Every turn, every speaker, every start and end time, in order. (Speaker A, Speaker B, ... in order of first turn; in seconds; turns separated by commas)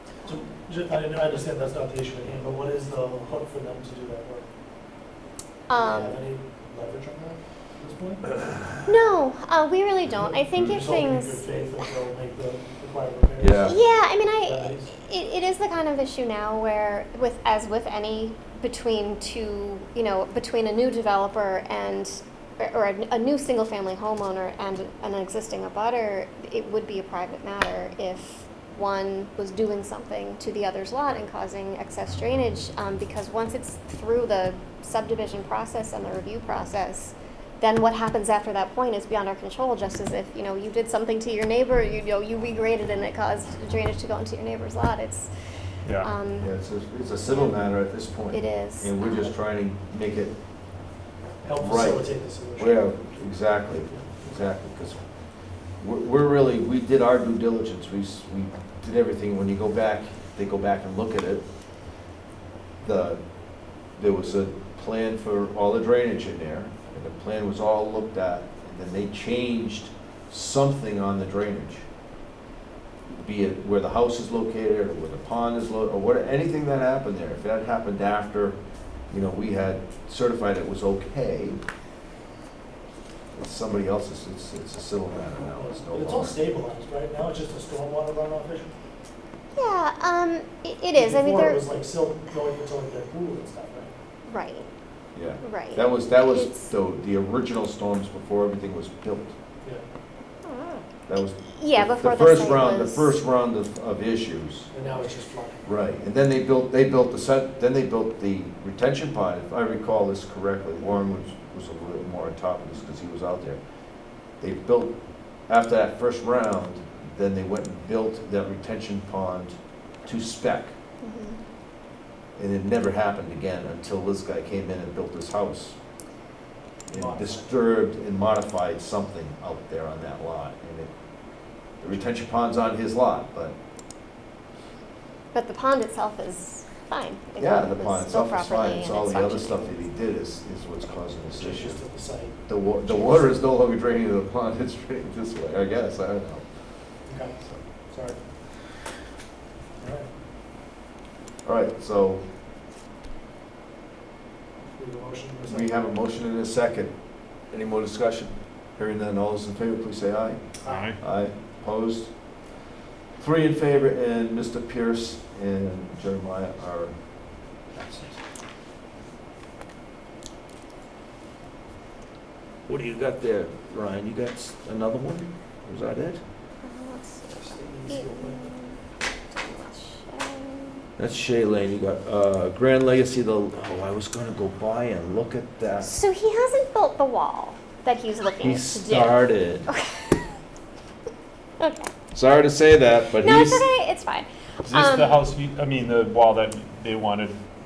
Speaker A: 0.3-4.5, Speaker B: 5.7-6.2, Speaker A: 5.7-8.4, Speaker B: 8.8-11.4, Speaker A: 10.2-13.7, Speaker C: 13.4-13.8, Speaker B: 13.7-45.3, Speaker A: 14.4-14.9, Speaker D: 45.9-46.1, Speaker B: 46.0-46.5, Speaker C: 46.4-50.3, Speaker B: 48.3-49.3, Speaker A: 51.4-52.9, Speaker C: 51.6-55.0, Speaker C: 55.8-61.5, Speaker C: 62.8-63.2, Speaker C: 63.9-71.8, Speaker C: 73.1-78.6, Speaker C: 79.1-81.6, Speaker C: 83.3-86.4, Speaker A: 85.2-88.8, Speaker B: 89.5-91.6, Speaker A: 91.0-93.9, Speaker B: 94.3-94.7, Speaker C: 95.2-99.3, Speaker B: 95.4-96.7, Speaker B: 100.5-100.9, Speaker C: 101.1-104.7, Speaker B: 101.5-103.2, Speaker A: 104.7-105.7, Speaker C: 105.7-113.6, Speaker C: 114.4-114.9, Speaker C: 115.5-120.7, Speaker B: 121.0-121.4, Speaker C: 122.4-125.8, Speaker A: 126.9-127.5, Speaker C: 126.9-130.9, Speaker C: 131.8-133.6, Speaker B: 135.3-139.8, Speaker C: 137.4-141.8, Speaker A: 141.3-143.4, Speaker C: 142.5-146.4, Speaker A: 147.1-148.3, Speaker A: 149.8-150.1, Speaker C: 151.4-152.2, Speaker A: 154.7-155.7, Speaker C: 155.5-156.9, Speaker C: 157.5-160.4, Speaker A: 160.6-160.9, Speaker D: 160.7-161.0, Speaker C: 161.0-162.1, Speaker C: 163.2-166.9, Speaker C: 167.7-168.2, Speaker C: 172.7-176.2, Speaker B: 176.6-178.8, Speaker A: 177.5-178.5, Speaker B: 179.3-180.9, Speaker C: 181.0-185.9, Speaker B: 185.8-190.2, Speaker C: 188.4-189.7, Speaker B: 191.6-191.9, Speaker C: 192.1-193.7, Speaker B: 193.2-195.2, Speaker D: 194.7-197.4